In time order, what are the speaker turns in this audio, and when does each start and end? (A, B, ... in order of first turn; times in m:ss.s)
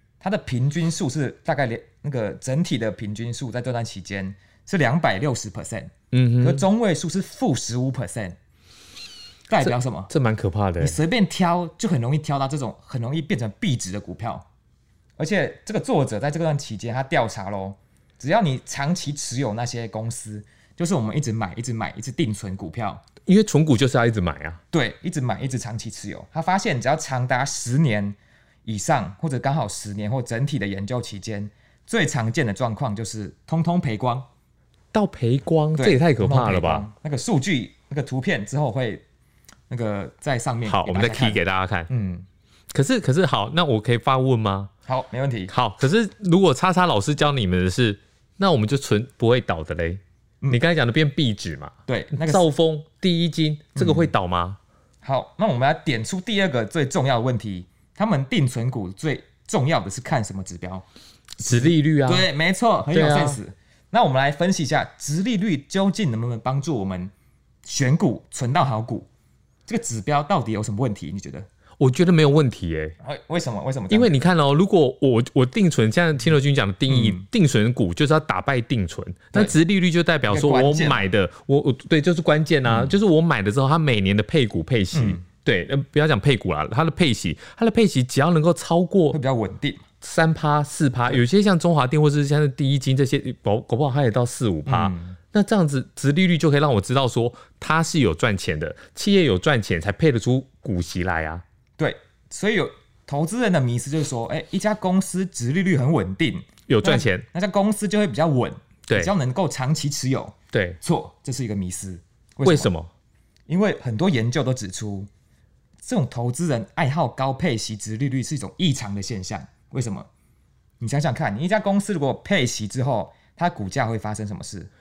0:00.2-0:08.4 A
0:06.1-0:06.6 B
0:09.5-0:10.1 A
0:09.6-0:11.0 B
0:10.8-0:14.4 A
0:15.2-0:23.0 A
0:23.2-0:24.6 B
0:24.7-0:34.3 A
0:34.9-0:36.9 B
0:35.7-0:39.0 A
0:39.7-0:42.2 A
0:40.6-0:41.9 B
0:42.7-0:44.7 B
0:44.8-0:45.5 A
0:45.5-0:54.6 B
0:51.9-0:52.5 A
0:53.7-0:54.1 A
0:55.0-1:00.8 A
1:01.4-1:02.3 B
1:01.4-1:07.1 A
1:02.9-1:03.4 B
1:07.6-1:09.1 A
1:09.6-1:11.5 A
1:11.8-1:12.9 B
1:13.0-1:14.1 A
1:13.9-1:29.2 B
1:16.9-1:17.2 A
1:20.3-1:21.0 A
1:22.6-1:22.9 A
1:24.9-1:25.2 A
1:29.1-1:29.8 A
1:30.0-1:41.4 B
1:34.6-1:35.2 A
1:41.8-1:52.7 A
1:46.7-1:47.2 B
1:50.5-1:50.8 B
1:52.4-1:52.9 B
1:53.5-1:55.1 A
1:55.8-2:00.1 A
2:00.8-2:04.7 A